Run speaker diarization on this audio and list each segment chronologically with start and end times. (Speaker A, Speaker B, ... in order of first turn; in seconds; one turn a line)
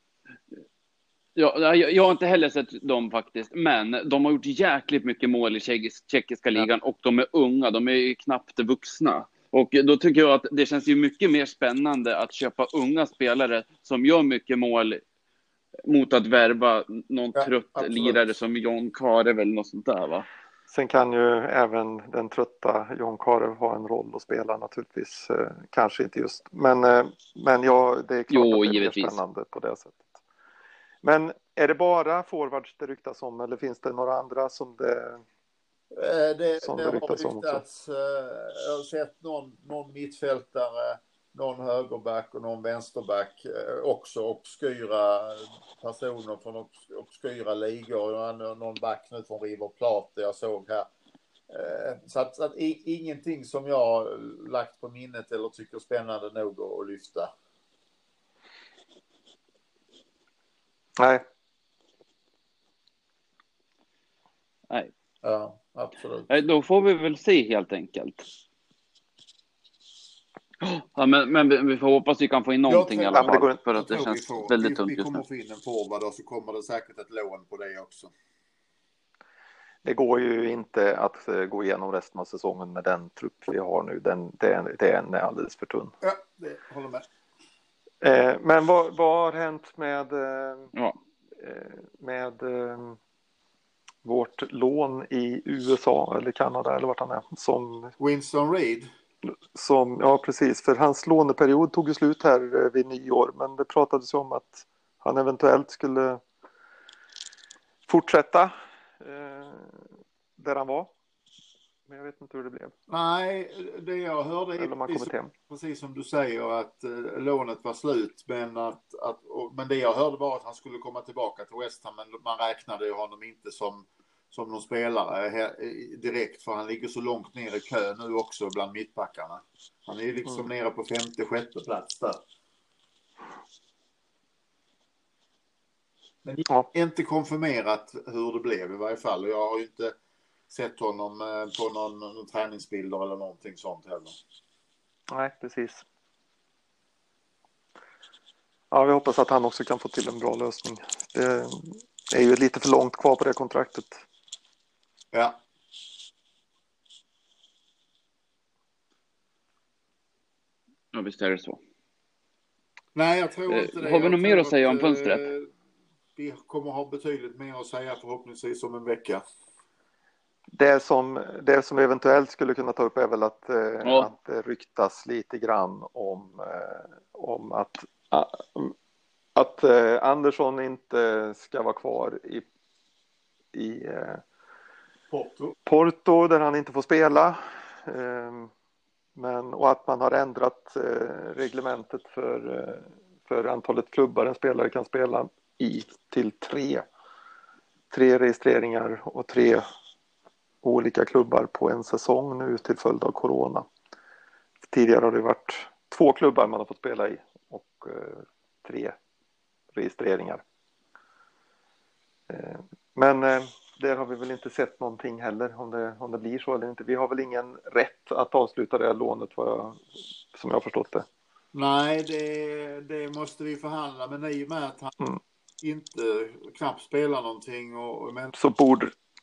Speaker A: 1.4-15.0
Speaker A: 15.8-20.3
Speaker B: 17.4-18.2
Speaker C: 20.7-30.1
Speaker A: 28.3-29.2
Speaker C: 31.0-35.2
Speaker B: 35.9-50.9
Speaker C: 36.6-37.6
Speaker B: 51.5-57.3
Speaker C: 61.0-61.2
Speaker B: 65.2-66.3
Speaker A: 66.3-68.2
Speaker A: 70.6-75.2
Speaker B: 72.7-78.1
Speaker C: 73.1-73.6
Speaker C: 79.8-85.9
Speaker B: 86.0-87.0
Speaker C: 88.0-90.7
Speaker C: 91.4-93.0
Speaker C: 94.0-97.9
Speaker B: 98.0-98.9
Speaker C: 99.2-106.2
Speaker C: 107.9-110.9
Speaker C: 111.9-112.7
Speaker B: 112.9-132.2
Speaker C: 114.6-115.3
Speaker B: 136.2-139.9
Speaker B: 140.5-144.2
Speaker C: 145.1-145.8
Speaker C: 148.7-154.0
Speaker B: 155.1-155.4
Speaker A: 160.9-161.6
Speaker B: 162.9-165.5
Speaker A: 163.5-165.3
Speaker B: 166.2-169.2
Speaker C: 170.5-178.7
Speaker A: 173.8-174.1
Speaker C: 179.3-182.4
Speaker C: 183.5-184.2
Speaker B: 185.1-185.5
Speaker C: 185.7-188.5
Speaker C: 189.2-196.8
Speaker C: 197.9-199.6
Speaker C: 200.6-203.7
Speaker C: 204.7-208.9
Speaker C: 209.7-210.4
Speaker C: 212.3-221.1
Speaker B: 221.5-224.9
Speaker B: 225.6-228.3
Speaker C: 228.3-228.9